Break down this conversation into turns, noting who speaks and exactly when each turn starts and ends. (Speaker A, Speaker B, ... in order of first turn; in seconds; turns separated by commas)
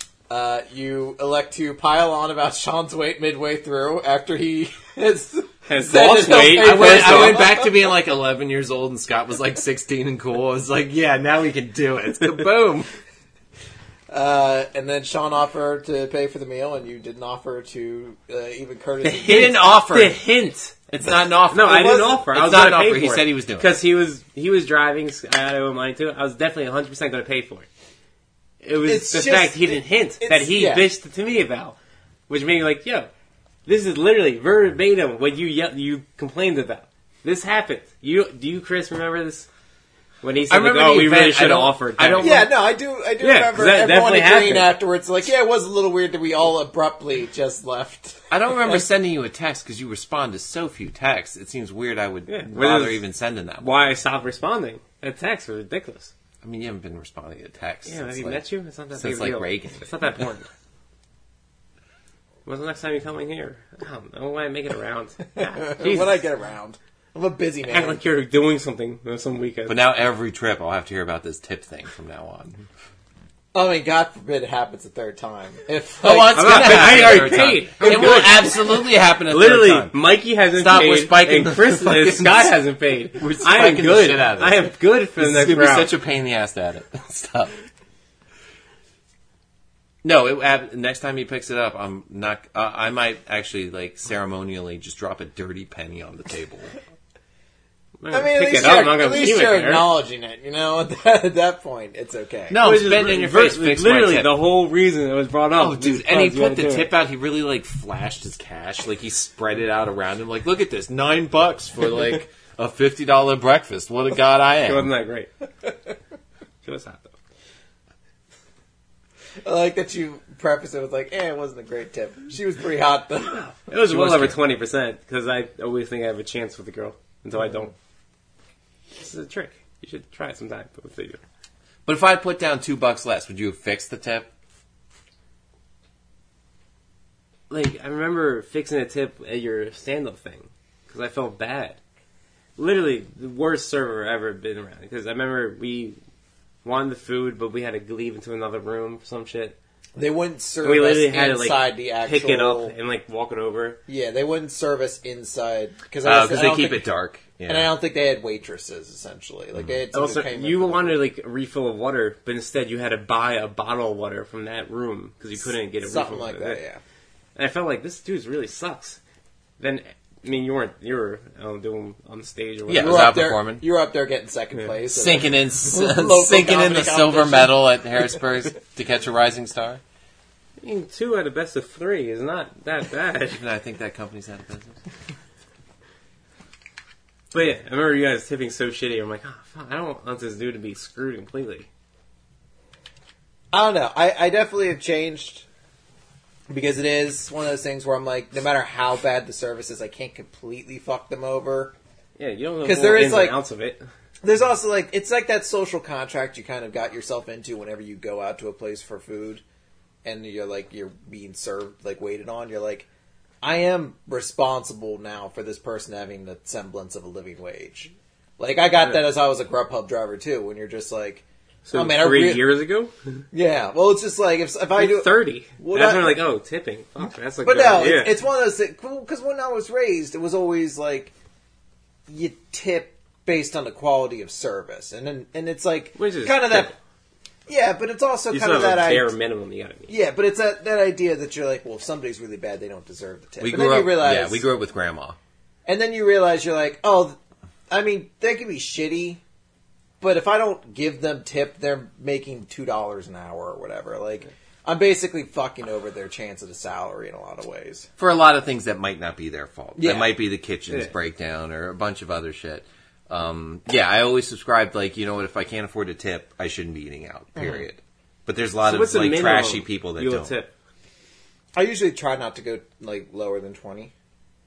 Speaker A: 0.3-7.8, Speaker B: 5.7-7.4, Speaker C: 6.2-12.9, Speaker A: 14.1-19.5, Speaker B: 19.0-20.9, Speaker C: 19.2-20.2, Speaker C: 20.9-23.7, Speaker B: 21.5-27.7, Speaker B: 28.6-31.8, Speaker A: 28.8-30.8, Speaker B: 32.3-33.1, Speaker B: 33.6-39.5, Speaker B: 40.2-42.3, Speaker C: 40.5-42.5, Speaker A: 42.2-48.8, Speaker B: 43.2-44.7, Speaker C: 48.3-53.9, Speaker B: 52.3-53.0, Speaker B: 53.6-56.1, Speaker C: 56.4-58.4, Speaker B: 57.9-60.5, Speaker C: 58.9-60.1, Speaker B: 62.5-66.2, Speaker A: 65.3-68.0, Speaker B: 67.7-69.8, Speaker C: 69.7-72.7, Speaker A: 73.5-77.2, Speaker C: 76.0-80.0, Speaker B: 76.3-85.9, Speaker A: 77.8-78.3, Speaker C: 80.5-82.5, Speaker C: 83.1-84.6, Speaker C: 85.2-87.5, Speaker C: 90.0-96.7, Speaker B: 98.0-99.8, Speaker A: 98.1-102.6, Speaker C: 102.5-104.3, Speaker B: 102.6-106.9, Speaker C: 105.6-114.9, Speaker B: 114.7-115.3, Speaker B: 116.6-117.1, Speaker A: 119.4-123.5, Speaker B: 123.5-127.7, Speaker C: 123.9-124.4, Speaker B: 129.0-131.2, Speaker C: 131.8-134.3, Speaker B: 137.5-141.8, Speaker B: 142.6-146.0, Speaker B: 146.6-149.6, Speaker A: 150.0-152.7, Speaker B: 150.6-153.8, Speaker A: 153.9-156.8, Speaker C: 156.0-157.7, Speaker A: 157.4-161.0, Speaker B: 159.9-166.6, Speaker A: 165.8-166.8, Speaker B: 167.3-169.0, Speaker B: 169.6-173.0, Speaker C: 172.7-173.6, Speaker A: 172.8-177.6, Speaker C: 174.9-179.8, Speaker B: 180.6-183.4, Speaker C: 183.4-184.8, Speaker B: 187.3-191.7, Speaker A: 193.5-195.4, Speaker A: 196.5-201.7, Speaker B: 202.2-203.8, Speaker A: 202.6-203.3, Speaker A: 204.2-209.4, Speaker A: 210.0-212.9, Speaker A: 213.4-222.4, Speaker B: 221.6-223.2, Speaker A: 223.3-226.2, Speaker B: 224.7-228.1, Speaker A: 227.4-231.1, Speaker A: 232.1-236.7, Speaker B: 235.9-236.7, Speaker A: 237.5-239.1, Speaker B: 238.3-239.9, Speaker A: 239.9-244.4, Speaker C: 243.4-245.2, Speaker A: 245.7-247.2, Speaker A: 247.7-249.2, Speaker A: 250.0-257.9, Speaker C: 258.0-270.3, Speaker A: 259.8-260.2, Speaker A: 267.4-267.6, Speaker B: 268.6-270.5, Speaker A: 271.5-273.9